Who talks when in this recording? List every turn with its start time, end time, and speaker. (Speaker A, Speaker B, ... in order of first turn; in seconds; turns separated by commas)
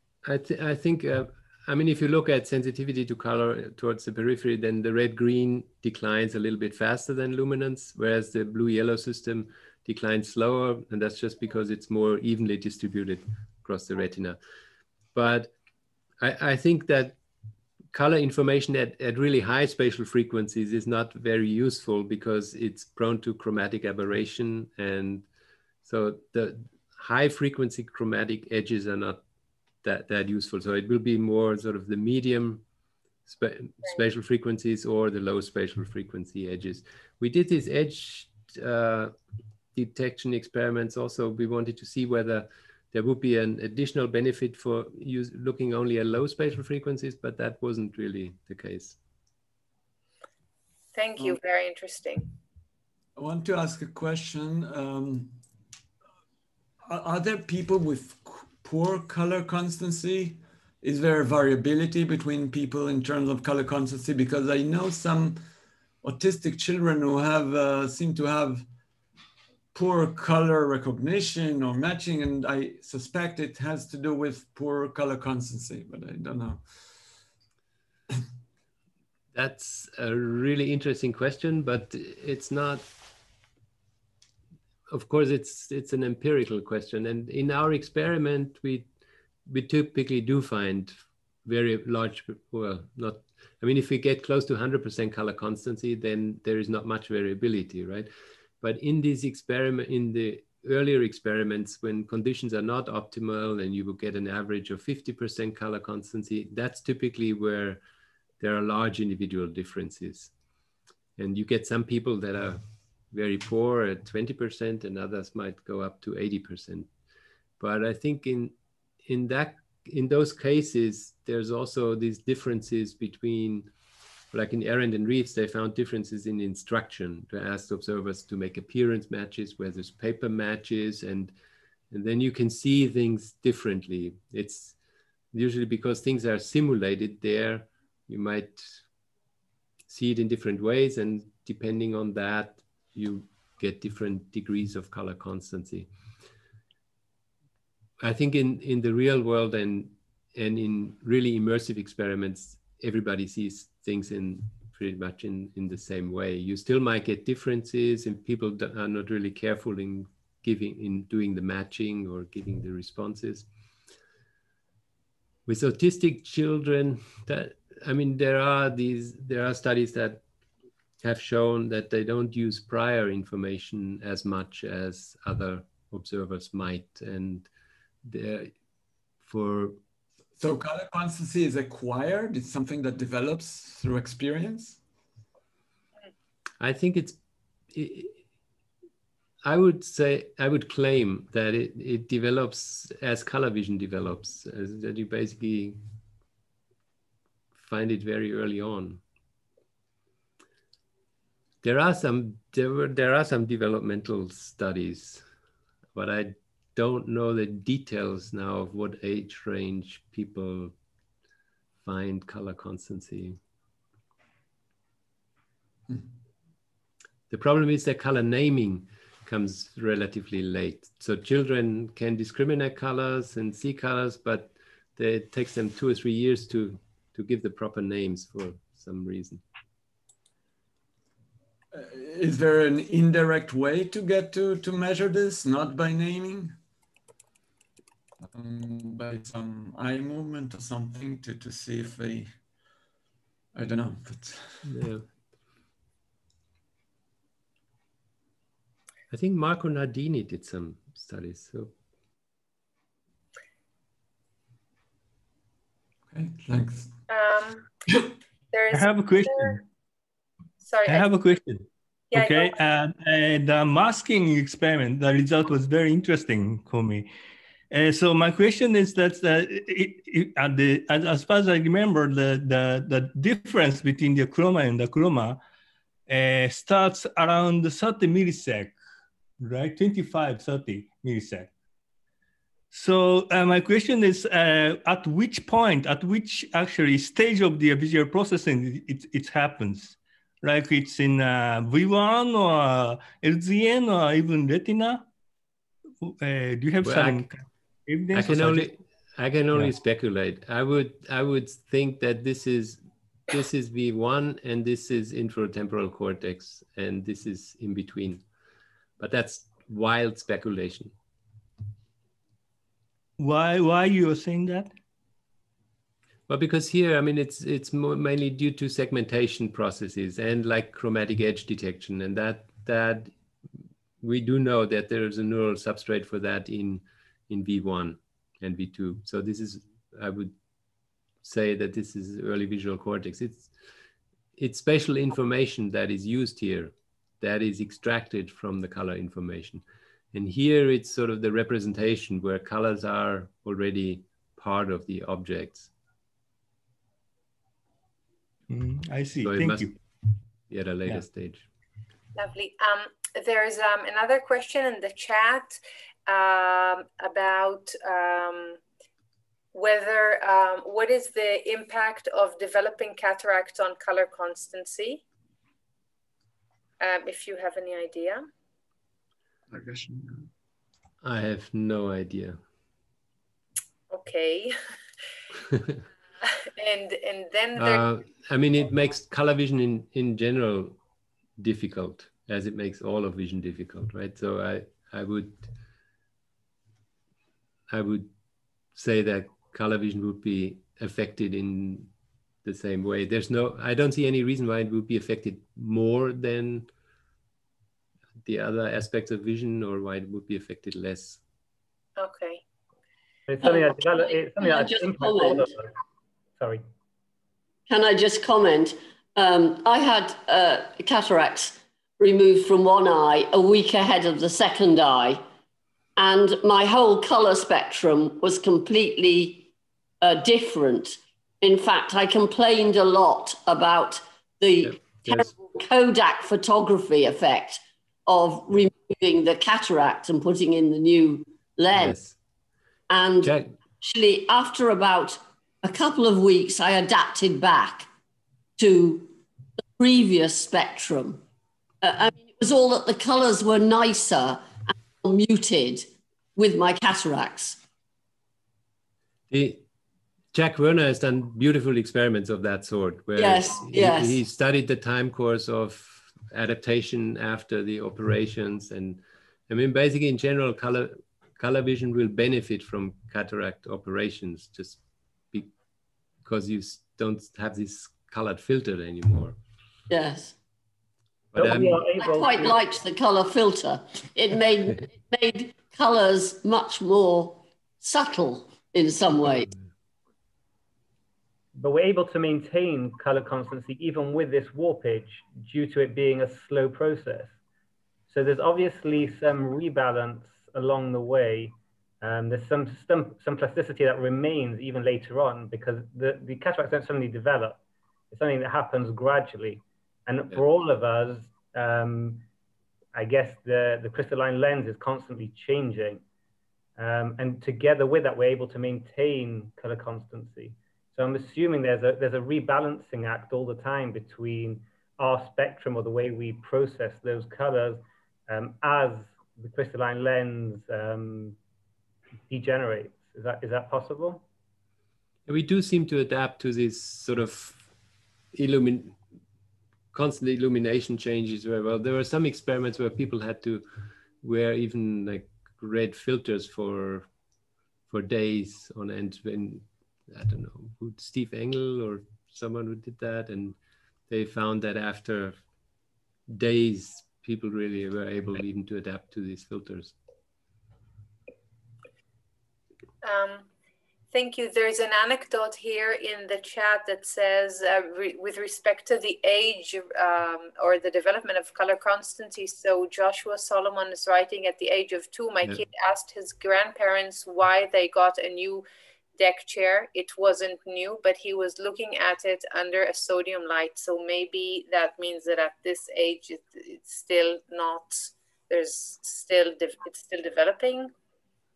Speaker A: 0.2-14.4, Speaker A: 15.1-15.5, Speaker A: 16.2-17.2, Speaker A: 17.9-25.2, Speaker A: 25.8-29.2, Speaker A: 29.8-32.6, Speaker A: 33.2-39.1, Speaker A: 39.7-49.0, Speaker B: 50.9-52.3, Speaker C: 53.1-55.4, Speaker C: 56.9-65.4, Speaker C: 66.0-68.7, Speaker C: 69.7-77.2, Speaker A: 79.3-82.8, Speaker A: 84.9-88.9, Speaker A: 89.5-98.1, Speaker A: 98.6-107.8, Speaker A: 108.4-110.3, Speaker A: 111.2-116.9, Speaker A: 117.6-118.5, Speaker A: 119.0-123.7, Speaker A: 124.3-131.3, Speaker A: 131.9-134.8, Speaker A: 135.3-138.8, Speaker A: 139.9-145.9, Speaker A: 148.0-163.5, Speaker A: 165.4-170.2, Speaker A: 171.0-177.5, Speaker A: 178.0-178.5, Speaker A: 179.2-179.8, Speaker C: 180.4-184.8, Speaker A: 186.6-187.2, Speaker A: 187.7-188.2, Speaker A: 189.4-195.8, Speaker A: 197.6-199.0, Speaker A: 201.6-205.2, Speaker A: 205.9-210.7, Speaker A: 211.8-213.4, Speaker A: 217.3-229.4, Speaker C: 231.7-236.6, Speaker C: 238.2-242.4, Speaker C: 243.5-244.7, Speaker A: 244.6-245.0, Speaker A: 249.1-251.7, Speaker C: 256.1-257.0, Speaker B: 257.1-257.7, Speaker B: 258.5-259.6, Speaker D: 258.7-259.6, Speaker B: 260.6-261.1, Speaker D: 260.9-267.1, Speaker B: 262.1-262.6, Speaker D: 267.7-275.4, Speaker D: 276.1-278.8, Speaker D: 279.4-281.5, Speaker D: 282.7-295.1, Speaker D: 296.0-298.7, Speaker A: 296.8-297.2, Speaker A: 298.1-308.2, Speaker A: 309.0-310.9, Speaker D: 313.2-314.7, Speaker A: 316.3-323.1, Speaker A: 324.0-330.4, Speaker A: 331.2-333.5, Speaker A: 334.4-345.7, Speaker D: 348.5-349.7, Speaker A: 349.2-349.7, Speaker A: 350.5-351.4, Speaker B: 352.1-358.6, Speaker B: 359.5-365.0, Speaker B: 366.8-368.2, Speaker C: 369.5-370.3, Speaker A: 371.0-372.4, Speaker B: 373.9-374.5, Speaker B: 376.2-377.8, Speaker A: 377.6-380.8, Speaker A: 381.4-385.5, Speaker A: 387.7-388.1, Speaker A: 388.7-391.9, Speaker A: 392.4-396.7, Speaker A: 398.2-401.2, Speaker B: 402.0-402.4, Speaker E: 403.3-405.7, Speaker F: 403.4-405.5, Speaker E: 406.4-406.6, Speaker F: 407.7-415.2, Speaker F: 415.9-432.0, Speaker A: 424.6-425.3, Speaker A: 431.7-432.1, Speaker F: 432.9-437.9, Speaker A: 433.2-433.5, Speaker F: 438.6-439.1, Speaker F: 439.8-441.2, Speaker F: 441.8-447.6, Speaker A: 449.3-449.6, Speaker A: 450.3-464.8, Speaker F: 453.1-454.2, Speaker A: 466.2-469.4, Speaker F: 469.9-470.4, Speaker A: 471.3-471.8, Speaker E: 471.4-472.6, Speaker F: 471.4-479.5, Speaker E: 481.5-487.4, Speaker E: 488.1-497.6, Speaker E: 498.1-502.2, Speaker E: 502.9-506.0, Speaker E: 506.8-521.4, Speaker E: 522.3-524.2, Speaker A: 525.3-527.7, Speaker A: 528.3-529.0, Speaker A: 529.9-533.6, Speaker A: 534.2-537.1, Speaker A: 537.9-543.5, Speaker A: 544.1-545.4, Speaker A: 546.3-549.9, Speaker B: 553.0-553.5, Speaker B: 554.1-568.6, Speaker B: 569.2-580.9